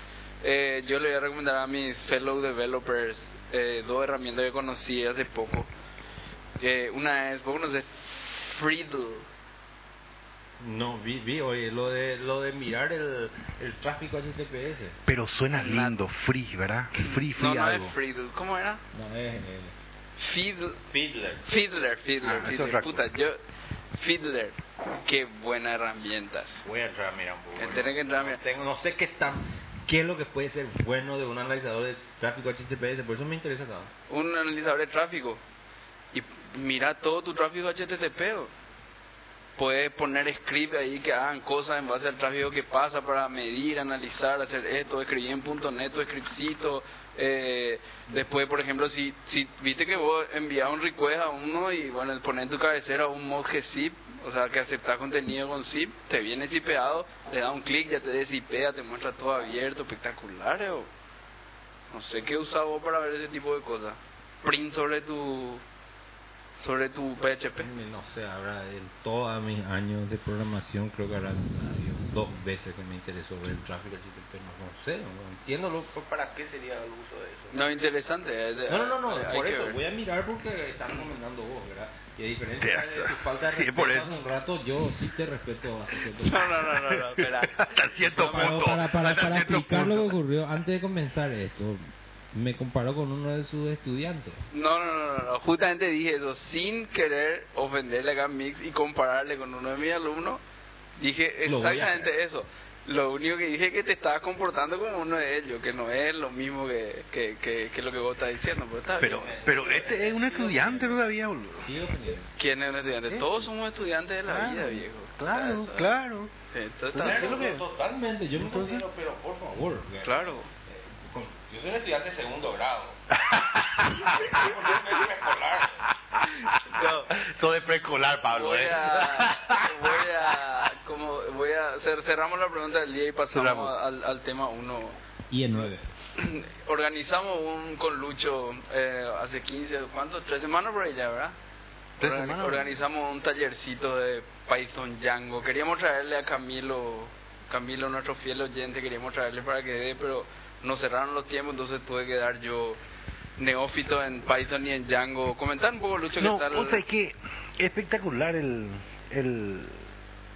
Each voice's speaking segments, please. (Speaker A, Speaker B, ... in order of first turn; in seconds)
Speaker A: 0.4-5.7, 6.6-9.3, 15.5-16.0, 17.0-18.8, 20.2-20.8, 21.4-23.4, 23.9-26.6, 27.6-28.4, 34.1-35.4, 36.1-38.5, 39.6-60.9, 61.9-65.6, 66.6-67.7, 77.5-79.8, 86.2-87.7, 88.2-88.6, 94.5-100.4, 101.0-109.4, 112.4-115.9, 116.5-117.6, 120.0-120.5, 126.5-127.2, 128.3-135.0, 135.6-141.3, 142.0-152.8, 153.4-156.8
Speaker B: 10.6-15.0, 18.9-19.7, 20.9-21.4, 26.6-33.9, 67.6-77.6, 78.7-86.7, 88.1-91.8, 92.3-94.4, 101.5-102.1, 109.0-111.0, 111.6-112.3, 117.0-123.0, 124.1-125.9, 135.3-135.8
Speaker C: 15.1-17.9, 22.2-23.1, 82.6-84.1, 87.0-90.2, 109.0-111.7, 113.1-113.5, 114.3-116.3, 116.9-117.6, 118.4-118.9, 123.2-124.5, 126.2-130.0, 133.3-133.7, 142.0-142.7, 156.2-159.8